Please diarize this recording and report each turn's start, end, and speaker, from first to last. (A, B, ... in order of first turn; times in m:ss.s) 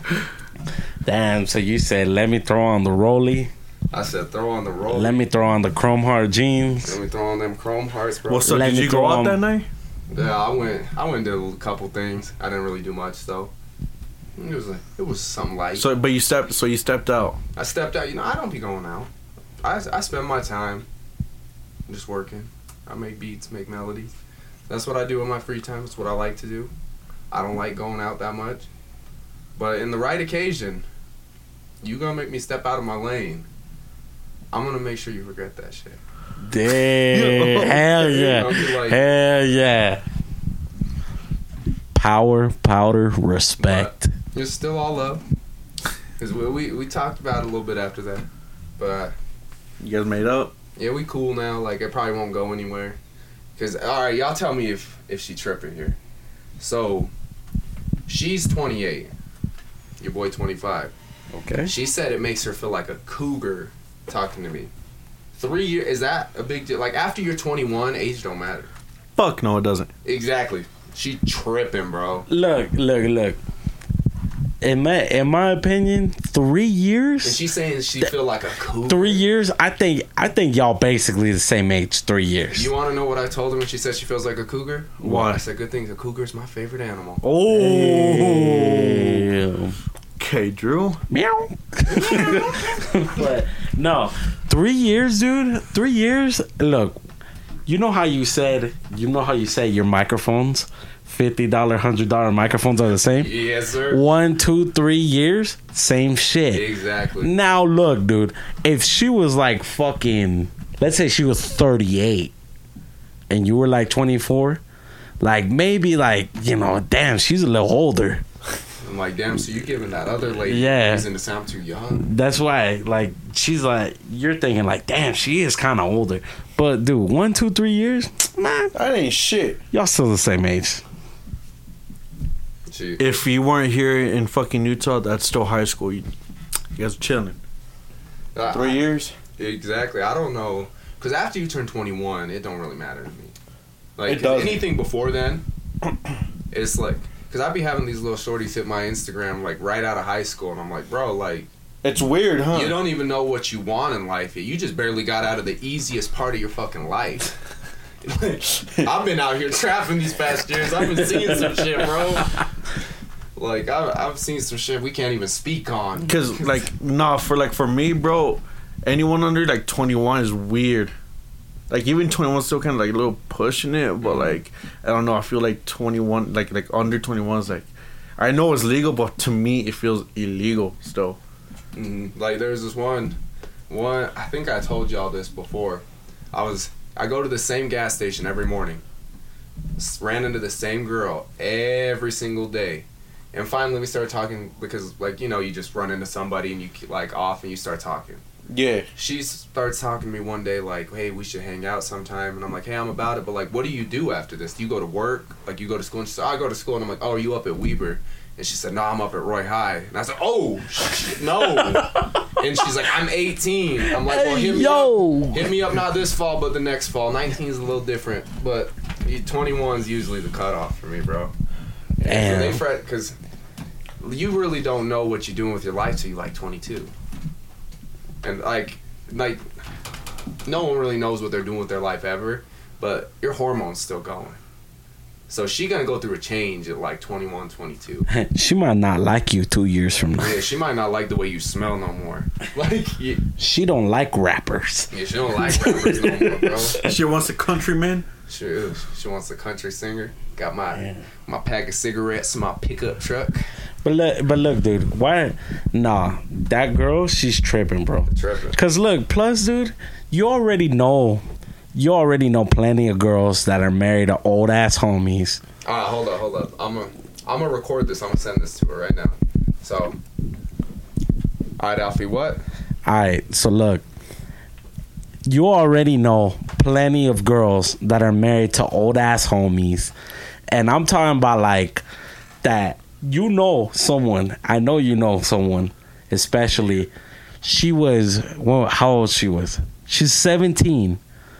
0:01.0-0:03.5 A
0:03.9-0:05.3 B
0:04.9-0:07.0 A
0:06.8-0:08.6 B
0:08.3-0:09.7 C
0:08.5-0:09.4 A
0:10.1-0:13.5 B
0:14.4-0:15.9 B
0:15.7-0:17.4 C
0:17.6-0:19.1 B
0:19.6-0:20.8 B
0:21.9-0:24.1 B
0:24.7-0:26.7 B
0:27.3-0:28.7 B
0:29.6-0:30.8 B
0:31.8-0:33.5 B
0:34.5-0:36.0 B
0:36.4-0:40.0 A
0:37.1-0:38.1 C
0:37.9-0:39.0 B
0:41.9-0:44.1 A
0:43.6-0:45.2 B
0:46.2-0:48.2 B
0:48.8-0:49.1 B
0:49.8-0:50.5 C
0:50.8-0:53.0 B
0:53.6-0:56.0 B
0:56.6-0:57.1 B
0:58.1-0:59.1 B
1:00.0-1:00.9 B
1:01.3-1:01.7 A
1:01.6-1:04.7 B
1:05.4-1:08.7 B
1:09.2-1:09.9 C
1:10.0-1:12.3 B
1:12.3-1:13.4 A
1:14.6-1:17.4 A
1:17.2-1:19.2 B
1:18.9-1:22.7 A
1:22.5-1:27.2 B
1:25.0-1:25.4 C
1:27.2-1:29.3 C
1:27.5-1:29.8 A
1:30.2-1:31.0 C
1:31.1-1:37.0 A
1:37.7-1:43.3 A
1:43.2-1:44.0 B
1:43.9-1:46.7 A
1:46.5-1:47.3 B
1:47.2-1:52.3 A
1:53.3-1:54.6 A
1:55.2-1:58.2 A
1:58.8-2:02.1 B
2:00.5-2:01.0 A
2:02.0-2:08.7 A
2:08.7-2:09.6 C
2:09.7-2:10.8 A
2:12.7-2:13.0 B
2:13.0-2:16.1 C
2:16.8-2:17.4 C
2:18.3-2:23.3 B
2:18.5-2:19.1 C
2:24.0-2:25.4 B
2:24.0-2:24.7 C
2:26.5-2:31.5 B
2:31.8-2:32.9 C
2:32.5-2:37.3 B
2:38.0-2:42.4 B
2:43.3-2:46.6 B
2:46.0-2:50.9 C
2:51.7-3:01.2 C
2:54.0-2:54.3 B
3:01.7-3:03.2 B
3:03.7-3:08.8 B
3:09.8-3:18.2 B
3:18.5-3:18.8 C
3:19.0-3:41.3 B
3:33.9-3:35.5 A
3:42.0-3:43.2 B
3:42.0-3:42.6 A
3:44.0-3:46.9 B
3:48.2-3:49.4 B
3:50.4-3:54.4 B
3:55.3-3:58.1 B
3:58.1-4:00.4 A
4:00.2-4:03.2 B
4:03.4-4:06.8 A
4:04.9-4:06.8 B
4:06.8-4:08.0 C
4:08.3-4:13.4 B
4:10.8-4:11.0 A
4:13.8-4:21.2 A
4:18.1-4:18.6 B
4:21.7-4:25.4 A
4:25.6-4:30.0 B
4:31.6-4:32.4 B
4:32.8-4:33.8 A
4:35.3-4:39.9 A
4:40.5-4:41.8 A
4:42.4-4:46.9 A
4:46.6-4:46.8 B
4:47.4-4:51.0 A